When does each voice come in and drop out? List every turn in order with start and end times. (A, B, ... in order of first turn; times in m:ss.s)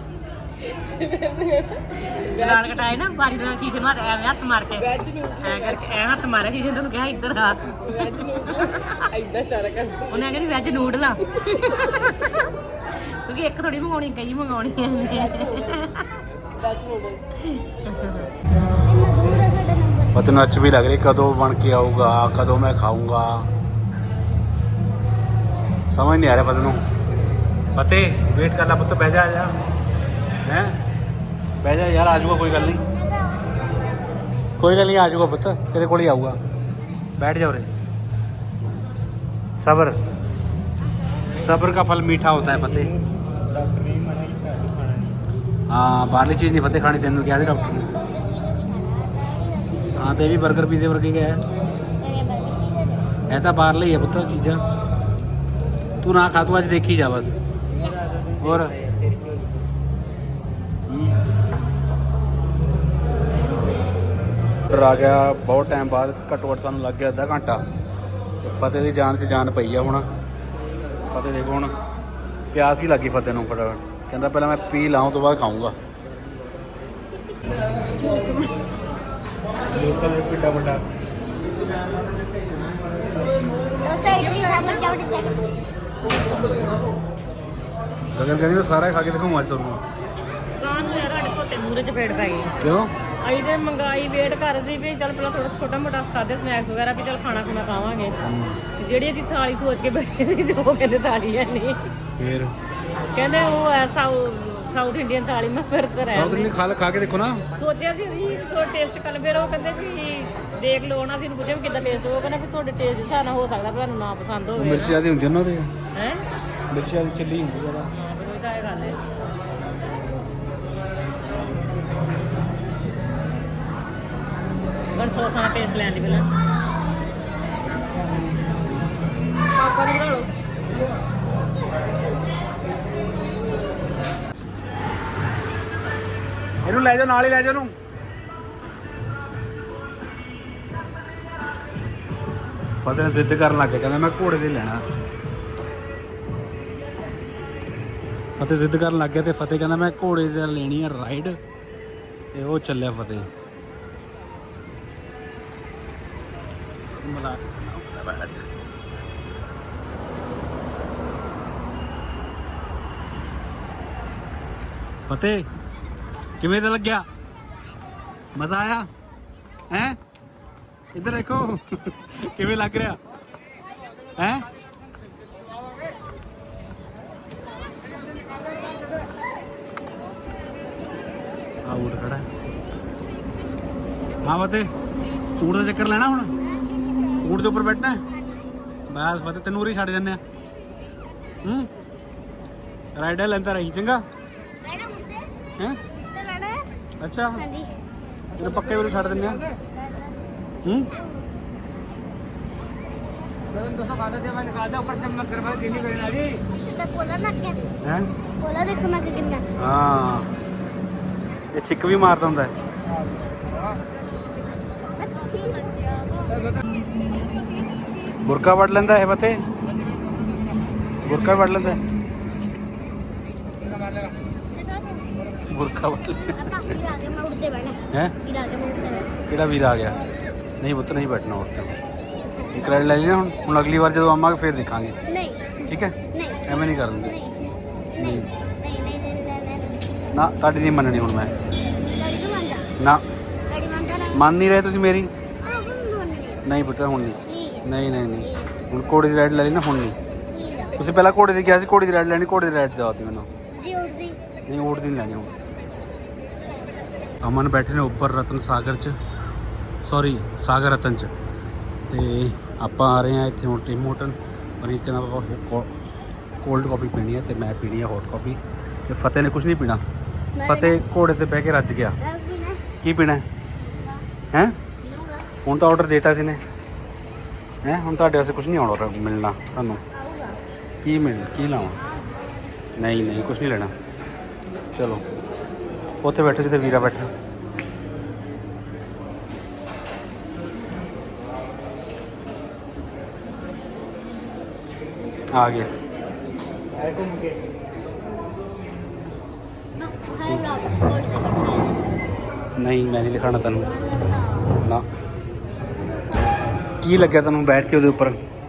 0:00.6-0:02.9 A
0:02.2-0:04.9 B
0:04.7-0:06.0 A
0:05.4-0:08.9 B
0:07.8-0:10.3 A
0:10.1-0:12.3 B
0:11.2-0:12.5 A
0:13.1-0:16.0 B
0:15.0-0:16.0 A
0:16.6-0:17.2 A
0:17.8-0:18.3 B
0:18.8-0:20.2 C
0:20.1-0:23.5 D
0:25.9-0:26.8 D
0:27.8-0:29.6 D
0:30.4-0:30.8 D
0:31.6-0:32.8 D
0:32.4-0:34.5 C
0:34.6-0:36.4 D
0:37.2-0:37.7 D
0:39.6-0:40.0 D
0:40.8-0:41.4 C
0:41.4-0:42.9 D
0:42.5-0:45.2 E
0:45.7-0:47.9 D
0:47.3-0:50.0 C
0:50.0-0:51.4 D
0:52.0-0:53.1 C
0:53.3-0:54.6 D
0:56.0-0:57.3 D
0:57.7-0:59.7 E
0:58.4-0:58.7 D
1:00.9-1:01.2 D
1:04.7-1:07.6 D
1:08.4-1:10.0 D
1:11.1-1:11.7 D
1:12.5-1:15.8 D
1:17.1-1:17.4 C
1:17.9-1:18.4 C
1:19.7-1:20.8 E
1:23.8-1:25.6 C
1:24.2-1:24.8 B
1:26.1-1:26.9 A
1:28.1-1:29.8 D
1:30.6-1:32.5 B
1:32.6-1:32.9 D
1:33.2-1:38.2 B
1:38.2-1:38.6 D
1:38.8-1:41.8 B
1:42.2-1:42.6 D
1:43.1-1:46.5 B
1:46.1-1:47.5 D
1:47.6-1:55.0 B
1:54.6-1:55.7 D
1:56.0-1:56.2 B
1:56.7-1:57.9 D
1:57.9-1:59.0 B
2:04.9-2:06.3 B
2:09.5-2:10.2 A
2:16.6-2:17.7 D
2:22.8-2:24.8 D
2:28.4-2:31.4 D
2:32.3-2:33.3 D
2:36.9-2:38.5 D
2:45.1-2:45.4 D
2:46.4-2:47.1 D
2:48.4-2:48.9 D
2:49.7-2:50.0 D
2:51.0-2:53.0 D
2:54.2-2:54.5 D
3:01.6-3:02.3 D
3:04.2-3:04.7 D
3:05.4-3:06.3 D
3:06.5-3:07.3 C
3:07.2-3:08.0 D
3:08.9-3:10.2 D
3:11.4-3:11.7 D
3:13.0-3:14.0 D
3:14.6-3:15.3 C
3:16.0-3:16.7 C
3:17.0-3:17.4 D
3:17.4-3:17.8 C
3:18.3-3:19.6 A
3:18.3-3:19.4 D
3:19.6-3:20.2 C
3:20.6-3:20.9 D
3:23.8-3:24.7 A
3:25.0-3:27.7 C
3:27.8-3:28.1 D
3:28.4-3:29.4 C
3:29.6-3:30.3 D
3:31.5-3:32.5 D
3:34.9-3:36.4 C
3:37.4-3:38.1 C
3:38.2-3:39.4 D
3:41.0-3:41.8 D
3:45.5-3:46.7 D
3:46.3-3:49.2 C
3:49.3-3:50.0 D
3:50.6-3:51.8 D
3:52.5-3:55.0 D
3:55.1-3:59.8 C
3:55.7-3:57.2 D
3:58.0-3:58.3 D
4:00.1-4:01.3 D
4:01.8-4:02.7 C
4:03.5-4:04.3 C
4:04.1-4:05.1 D
4:05.4-4:06.4 C
4:06.4-4:10.0 D
4:07.3-4:07.7 C
4:08.2-4:08.6 C
4:10.3-4:10.9 C
4:10.8-4:13.3 D
4:13.6-4:14.2 C
4:14.5-4:15.3 D
4:17.2-4:19.0 D
4:19.8-4:21.1 D
4:21.9-4:25.7 D
4:26.4-4:29.8 D
4:30.4-4:30.8 C
4:30.4-4:32.0 D
4:32.0-4:32.6 C
4:32.8-4:33.2 D
4:33.6-4:34.0 C
4:34.8-4:35.3 C
4:35.4-4:36.4 D
4:37.6-4:39.8 D
4:39.9-4:40.4 C
4:40.8-4:41.8 D
4:41.6-4:42.5 C
4:42.8-4:43.7 D
4:44.8-4:45.0 D
4:46.0-4:47.1 D
4:55.3-4:55.7 D
4:56.7-4:57.4 E
4:59.8-5:02.0 C
5:02.6-5:03.7 D
5:03.6-5:04.5 C
5:04.6-5:04.9 D
5:05.7-5:06.6 C
5:06.8-5:08.2 D